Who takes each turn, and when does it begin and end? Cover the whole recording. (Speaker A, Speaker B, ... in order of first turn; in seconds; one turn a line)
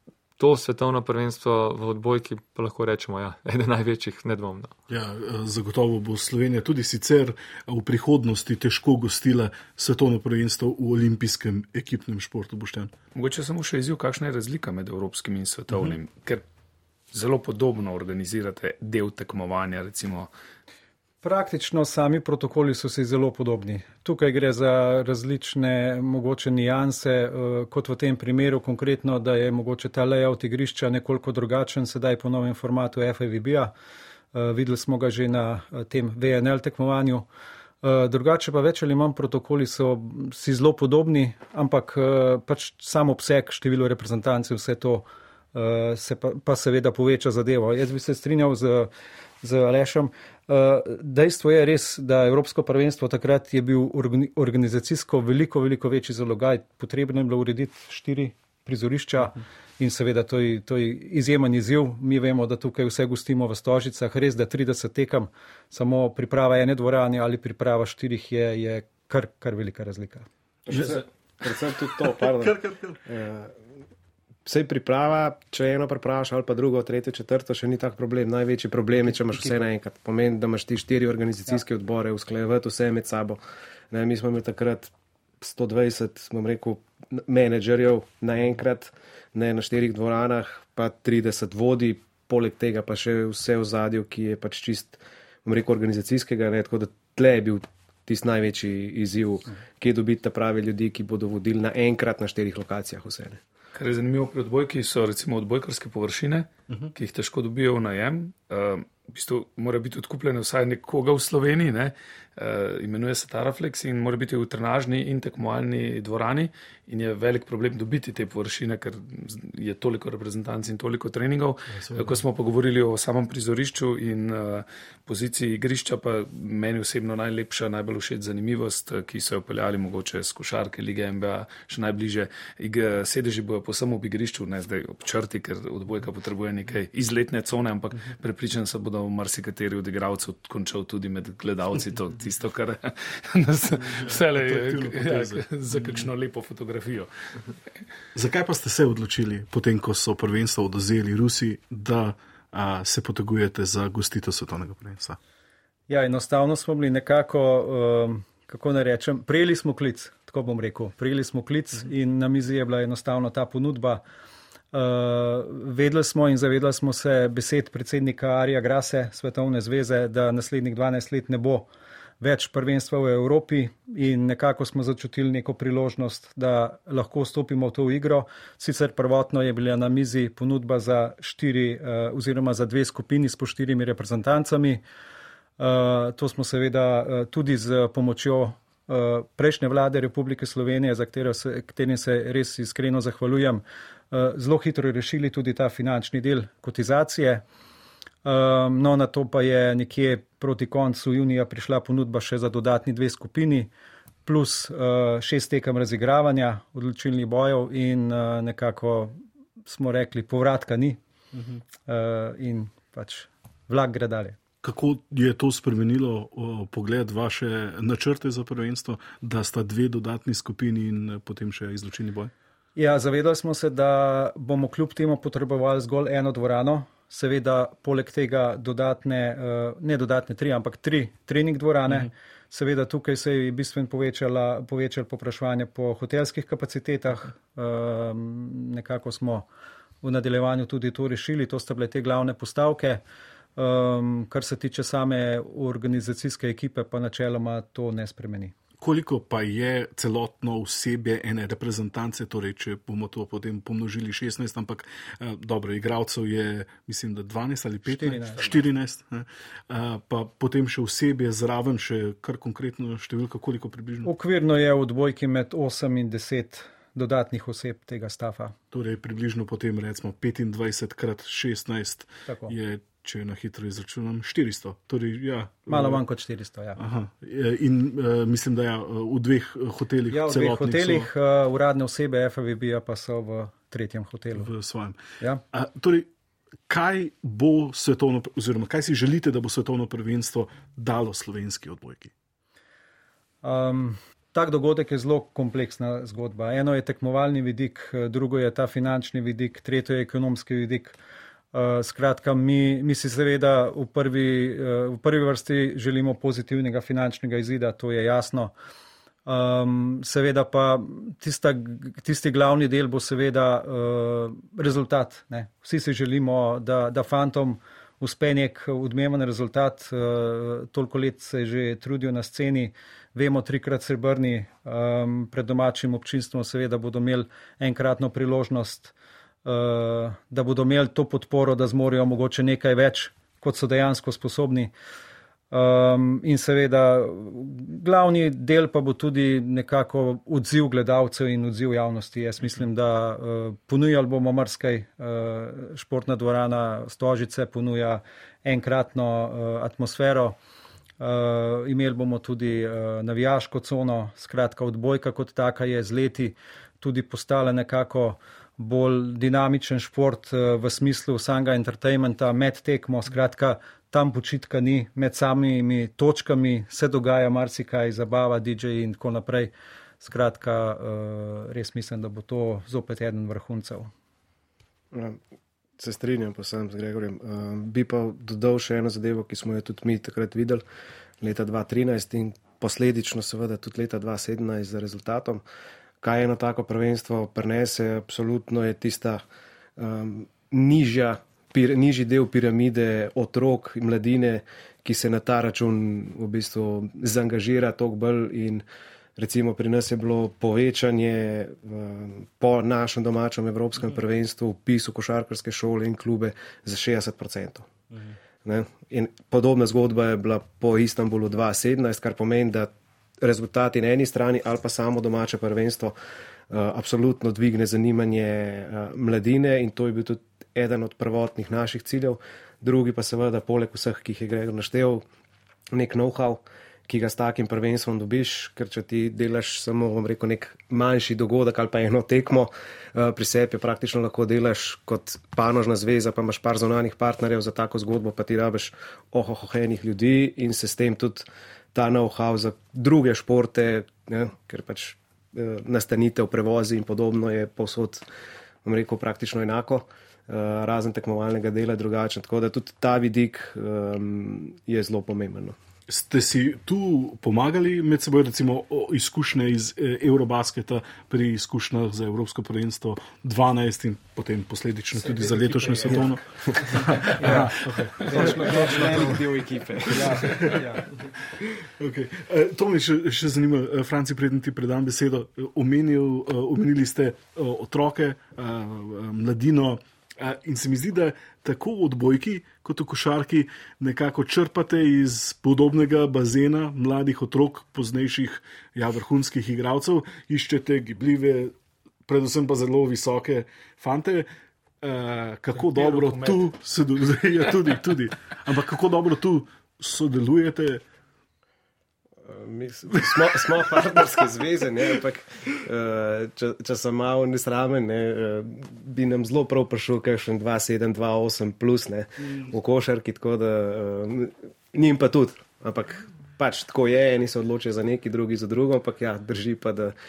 Speaker A: 0.4-4.7
Speaker B: 4.9-12.9
Speaker C: 13.1-16.4
Speaker C: 17.1-20.3
Speaker D: 21.2-33.7
Speaker D: 34.3-37.3
Speaker D: 37.8-48.9
Speaker D: 49.4-70.2
Speaker E: 70.7-73.5
Speaker B: 70.7-71.0
Speaker B: 72.0-73.0
Speaker E: 74.5-83.4
Speaker E: 83.9-103.4
Speaker C: 103.7-147.1
Speaker B: 121.7-122.2
Speaker B: 143.8-145.4
Speaker B: 148.1-155.2
Speaker D: 155.9-164.0
Speaker D: 164.7-171.7
Speaker D: 172.2-184.8
Speaker D: 185.6-197.4
Speaker D: 198.2-203.7
Speaker D: 204.2-211.0
Speaker B: 211.3-211.6
Speaker D: 211.8-214.4
Speaker B: 214.6-222.3
Speaker D: 222.8-239.5
Speaker D: 240.0-243.0
Speaker D: 243.6-248.5
Speaker B: 248.8-264.1
Speaker D: 257.9-258.4
Speaker C: 258.3-258.6
Speaker D: 264.0-268.5
Speaker B: 268.7-276.0
Speaker D: 272.3-272.5
Speaker D: 275.7-276.8
Speaker B: 276.8-281.1
Speaker D: 280.1-284.5
Speaker B: 284.4-285.0
Speaker B: 285.5-286.1
Speaker B: 286.7-292.1
Speaker D: 293.4-300.9
Speaker D: 301.5-308.5
Speaker D: 309.2-328.9
Speaker D: 329.4-334.7
Speaker D: 335.5-350.4
Speaker D: 351.0-373.9
Speaker E: 374.9-375.2
Speaker E: 375.8-380.6
Speaker E: 381.2-385.4
Speaker E: 386.0-389.2
Speaker E: 389.8-398.6
Speaker E: 399.2-407.7
Speaker E: 408.4-415.9
Speaker E: 416.5-425.0
Speaker E: 425.7-448.0
Speaker E: 448.6-455.6
Speaker B: 455.9-469.2
Speaker C: 464.9-466.1
Speaker C: 468.0-468.4
Speaker D: 468.1-469.2
Speaker E: 468.1-470.6
Speaker D: 469.9-470.8
Speaker B: 469.9-470.6
Speaker B: 471.4-491.5
Speaker B: 492.1-494.3
Speaker B: 494.8-500.8
Speaker C: 495.5-496.5
Speaker E: 502.2-519.9